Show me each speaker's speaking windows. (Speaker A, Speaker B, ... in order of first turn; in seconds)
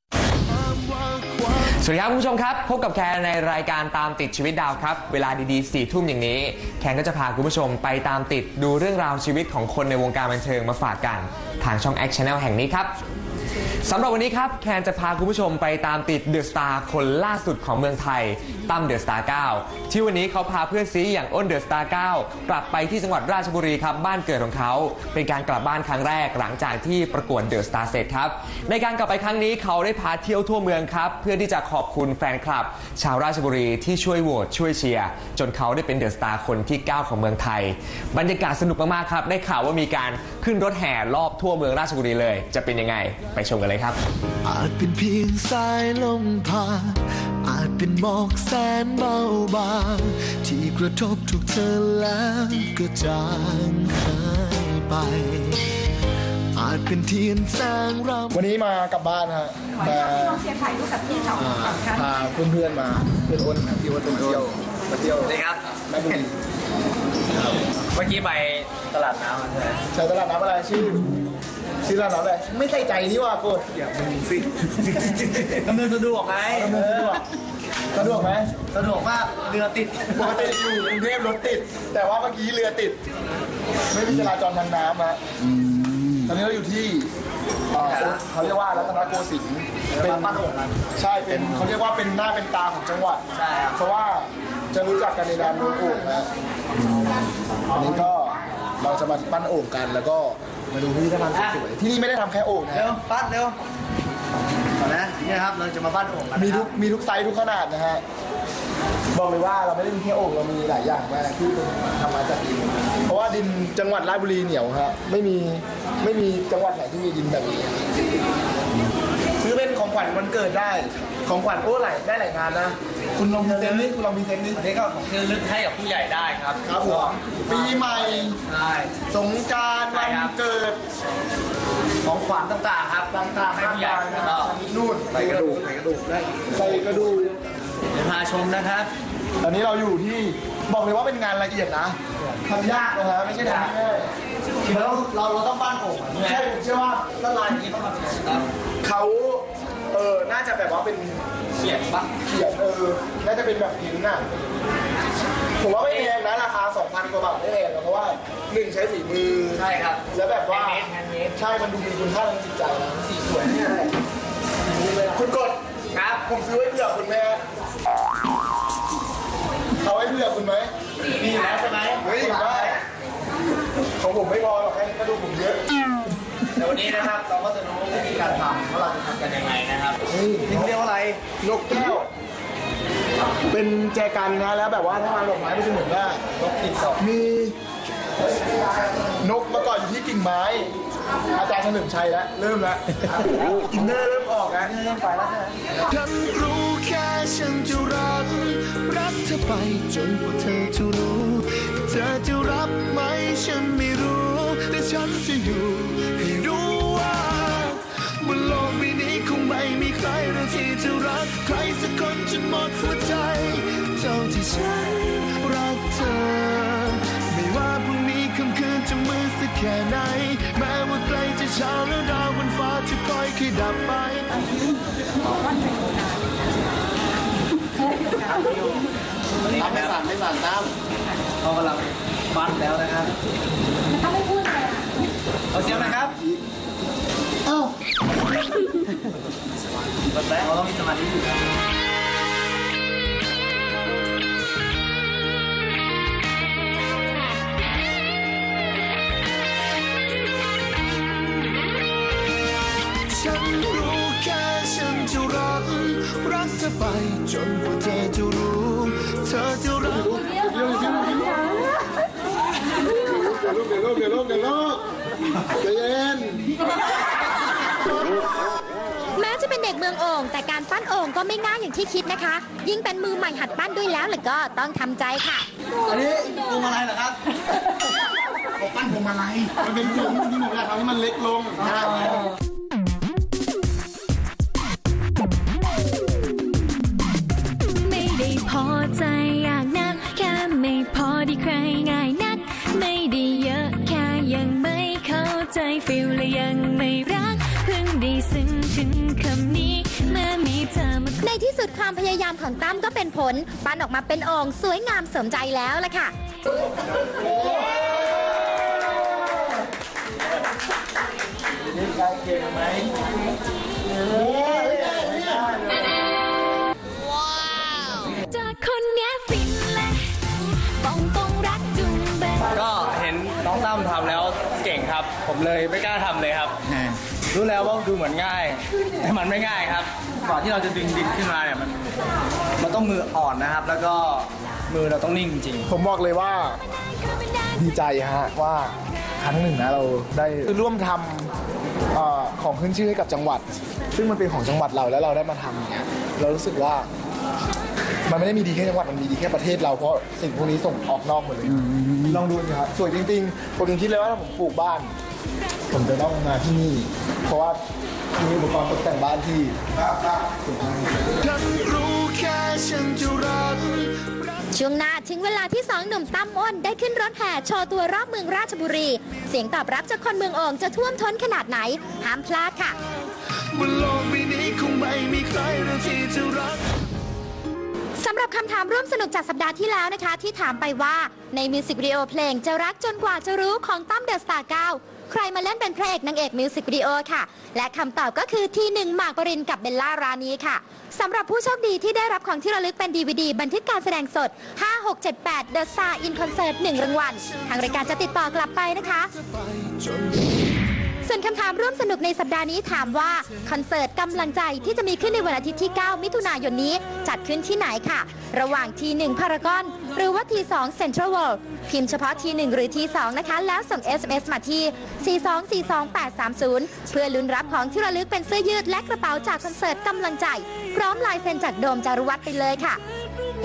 Speaker A: 0.5-1.7, 44.4-55.7, 56.5-58.4, 195.9-224.3, 253.1-260.3, 361.2-364.3, 373.5-376.6, 399.1-400.6
Speaker B: 1.7-12.9, 13.8-44.0
Speaker C: 58.3-60.5, 61.3-65.3, 65.9-66.3, 69.9-71.1, 71.8-73.8, 76.5-77.2, 77.9-78.5, 80.1-83.0, 83.9-85.2, 86.2-87.1, 87.7-96.3, 97.7-103.0, 106.3-108.0, 109.1-117.8, 119.4-124.6, 126.6-128.4, 129.1-130.8, 133.1-135.6, 136.5-137.3, 139.4-144.1, 146.2-147.2, 148.8-151.2, 152.2-154.2, 155.6-163.1, 165.1-165.6, 166.1-167.4, 169.8-170.7, 172.0-172.8, 174.0-175.6, 180.1-180.7, 181.4-182.1, 183.5-186.2, 187.0-187.6, 189.2-190.7, 191.3-194.7, 229.5-230.7, 235.6-236.4, 260.2-261.3, 263.0-264.8, 265.6-266.4, 279.5-282.2, 314.2-315.5, 335.7-336.6, 337.6-341.3, 341.9-346.9, 348.1-354.9, 355.7-357.6, 358.1-361.0
Speaker D: 64.1-64.5, 65.2-66.2, 67.3-69.8, 73.8-77.2, 78.7-80.5, 87.7-88.4, 89.9-90.8, 93.3-93.8, 97.7-98.1, 101.3-101.7, 102.7-103.6, 104.8-106.7, 123.3-123.9, 124.5-128.9, 129.9-130.3, 132.0-134.5, 135.1-137.3, 137.9-138.9, 143.4-143.7, 144.6-146.5, 147.1-148.4, 151.6-152.1, 155.8-156.1, 159.5-161.4, 163.1-163.9, 164.8-165.2, 165.9-166.3, 171.0-172.8, 176.6-181.2, 186.4-187.0, 188.4-189.1, 193.1-193.9, 194.6-195.6, 228.3-228.6, 229.4-230.0, 231.4-233.1, 235.5-236.1, 240.1-241.4, 275.9-277.2, 278.6-279.5, 281.6-282.3, 311.7-312.9, 314.1-315.8, 322.5-331.8, 332.6-335.7
Speaker E: 269.1-275.4, 301.2-306.1, 364.5-372.7, 378.0-399.1, 401.0-422.8
Speaker F: 287.8-301.2, 318.3-320.2, 320.8-322.5